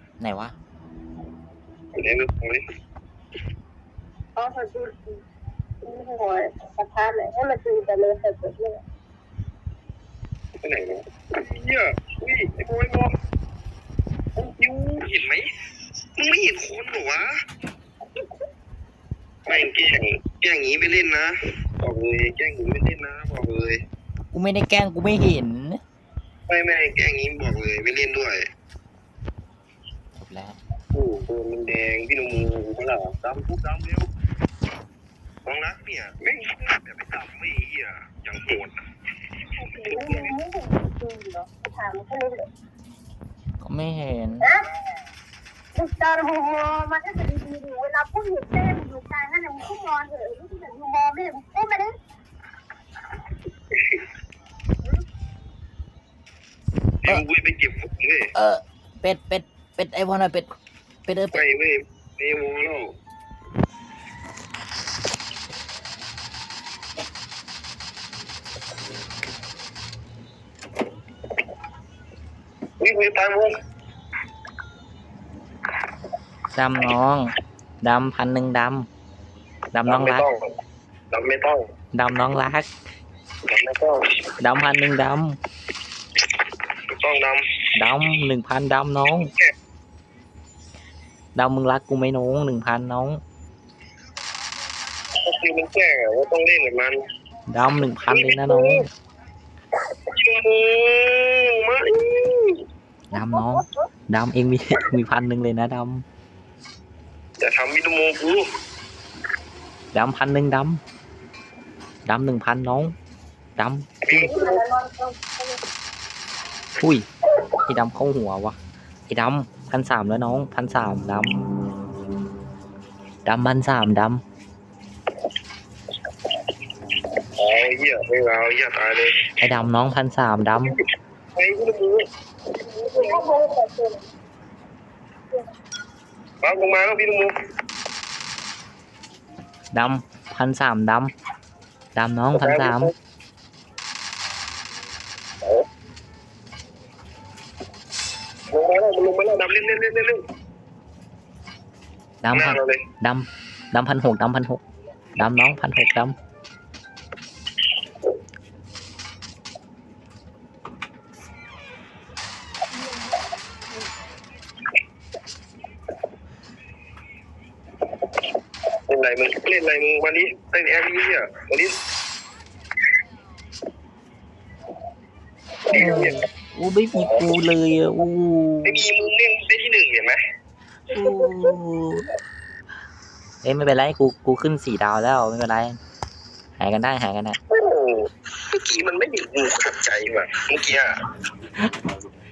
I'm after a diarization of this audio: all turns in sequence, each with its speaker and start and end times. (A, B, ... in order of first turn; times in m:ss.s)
0:00.2-0:00.6 A
0:02.0-0:02.6 B
0:04.4-0:05.2 C
0:05.8-0:08.8 C
0:10.6-0:13.1 B
0:14.4-0:15.5 B
0:16.2-0:17.4 B
0:19.5-0:23.8 B
0:24.3-0:25.8 A
0:26.5-0:28.5 B
0:30.2-0:30.6 A
0:30.9-0:34.1 B
0:35.4-0:38.8 B
0:39.6-0:42.5 C
0:39.8-0:40.3 B
0:43.6-0:44.5 A
0:44.4-0:44.7 C
0:45.8-0:52.0 C
0:53.7-0:54.0 B
0:57.0-0:58.3 B
0:58.4-1:00.5 A
1:01.1-1:01.4 A
1:01.3-1:03.0 B
1:12.8-1:13.5 B
1:16.6-1:18.9 A
1:19.7-1:20.3 A
1:19.9-1:20.4 B
1:21.1-1:21.7 B
1:21.9-1:22.7 A
1:23.5-1:24.2 B
1:24.4-1:25.4 A
1:26.9-1:27.4 B
1:27.8-1:29.3 A
1:31.4-1:33.2 A
1:35.2-1:37.0 B
1:37.5-1:38.9 A
1:38.1-1:38.8 B
1:40.1-1:42.6 B
1:43.1-1:46.0 A
1:43.2-1:43.6 C
1:47.4-1:48.5 B
1:49.9-1:50.8 A
1:52.1-1:52.9 A
1:53.6-1:54.2 A
1:54.1-1:54.6 B
1:54.1-1:55.6 C
1:56.8-1:57.1 A
1:57.6-1:58.6 A
1:59.1-2:01.5 A
2:03.3-2:04.2 A
2:07.4-2:09.2 B
2:09.4-2:10.8 A
2:11.4-2:12.1 B
2:12.8-2:14.0 C
2:16.4-2:17.3 B
2:19.7-2:21.1 A
2:22.0-2:22.9 A
2:22.4-2:22.9 B
2:28.5-2:30.2 B
2:32.2-2:34.6 A
2:32.3-2:32.8 B
2:35.2-2:36.2 A
2:48.9-2:51.7 B
2:55.7-2:56.2 B
2:55.7-2:58.8 A
2:57.0-2:57.2 B
2:58.6-3:00.2 B
3:00.9-3:02.1 A
3:03.4-3:05.8 A
3:06.6-3:07.4 A
3:07.5-3:11.0 B